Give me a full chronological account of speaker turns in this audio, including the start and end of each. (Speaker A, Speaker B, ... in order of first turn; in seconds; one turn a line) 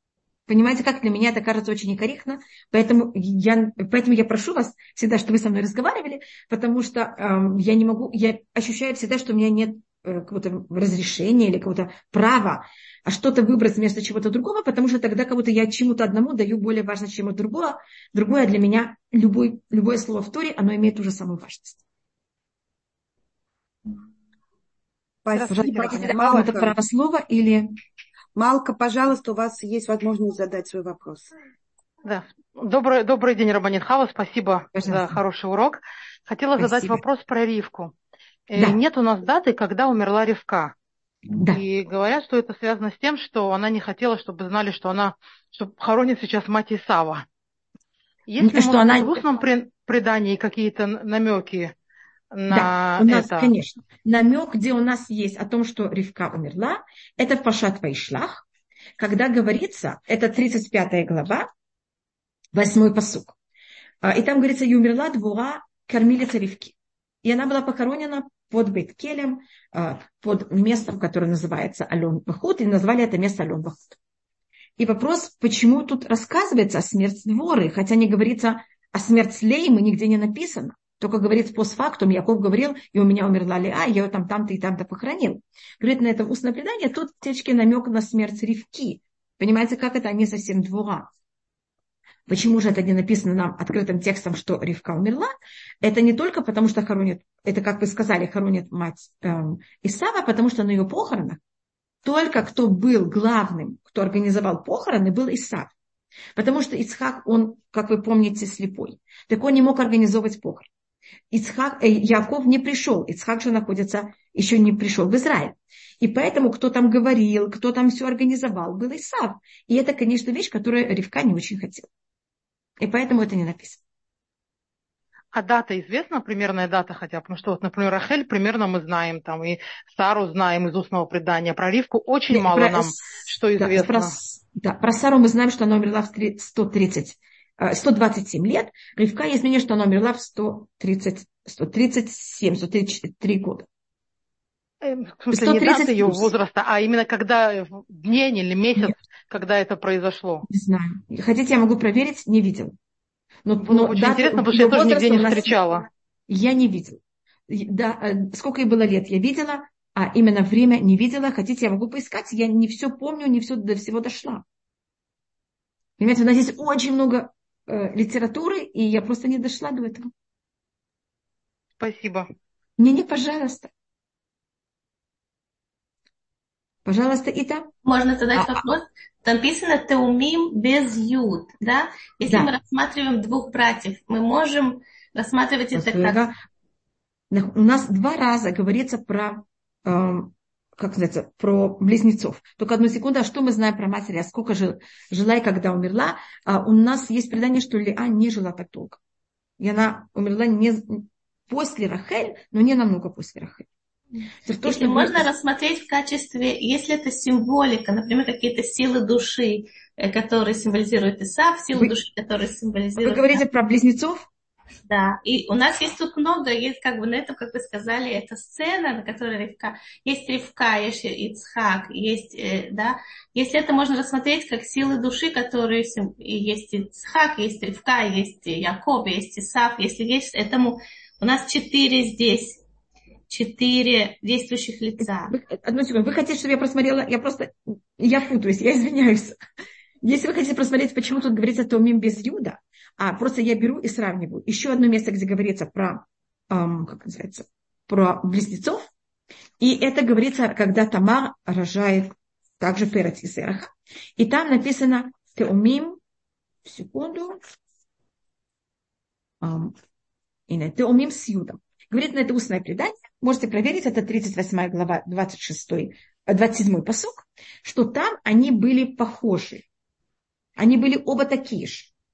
Speaker A: 0.5-21.8
Speaker B: 25.2-26.7
Speaker C: 25.3-26.1
Speaker A: 25.5-27.7
Speaker B: 28.3-31.3
Speaker C: 32.0-37.9
Speaker A: 34.7-35.2
Speaker A: 36.6-37.0
Speaker C: 38.5-40.7
Speaker A: 41.3-41.6
Speaker C: 41.5-47.2
Speaker C: 48.3-51.7
Speaker A: 48.4-49.2
Speaker C: 52.3-53.5
Speaker A: 52.5-58.4
Speaker A: 59.0-61.5
Speaker A: 62.5-63.3
Speaker A: 64.0-74.0
Speaker A: 74.8-91.1
Speaker A: 92.3-95.3
Speaker A: 95.8-101.4
Speaker A: 102.0-105.7
Speaker A: 106.3-110.7
Speaker A: 111.3-121.9
Speaker A: 122.8-123.8
Speaker C: 125.3-134.1
Speaker A: 132.3-143.7
Speaker C: 144.8-150.4
Speaker A: 145.3-146.3
Speaker A: 150.5-152.7
Speaker A: 153.4-155.6
Speaker C: 153.6-155.9
Speaker A: 156.3-164.4
Speaker A: 166.0-170.1
Speaker C: 171.8-172.2
Speaker A: 172.8-173.7
Speaker A: 176.8-177.7
Speaker D: 177.8-186.2
Speaker A: 178.3-178.6
Speaker A: 182.3-182.5
Speaker A: 185.7-186.4
Speaker A: 187.3-199.0
Speaker A: 199.6-203.7
Speaker A: 204.4-205.3
Speaker D: 204.6-213.4
Speaker A: 213.0-214.3
Speaker D: 214.9-232.6
Speaker D: 233.3-235.3
Speaker A: 235.0-239.4
Speaker A: 240.0-248.9
Speaker A: 249.6-256.0
Speaker A: 256.6-257.4
Speaker A: 259.4-259.7
Speaker A: 260.5-269.6
Speaker A: 270.6-271.9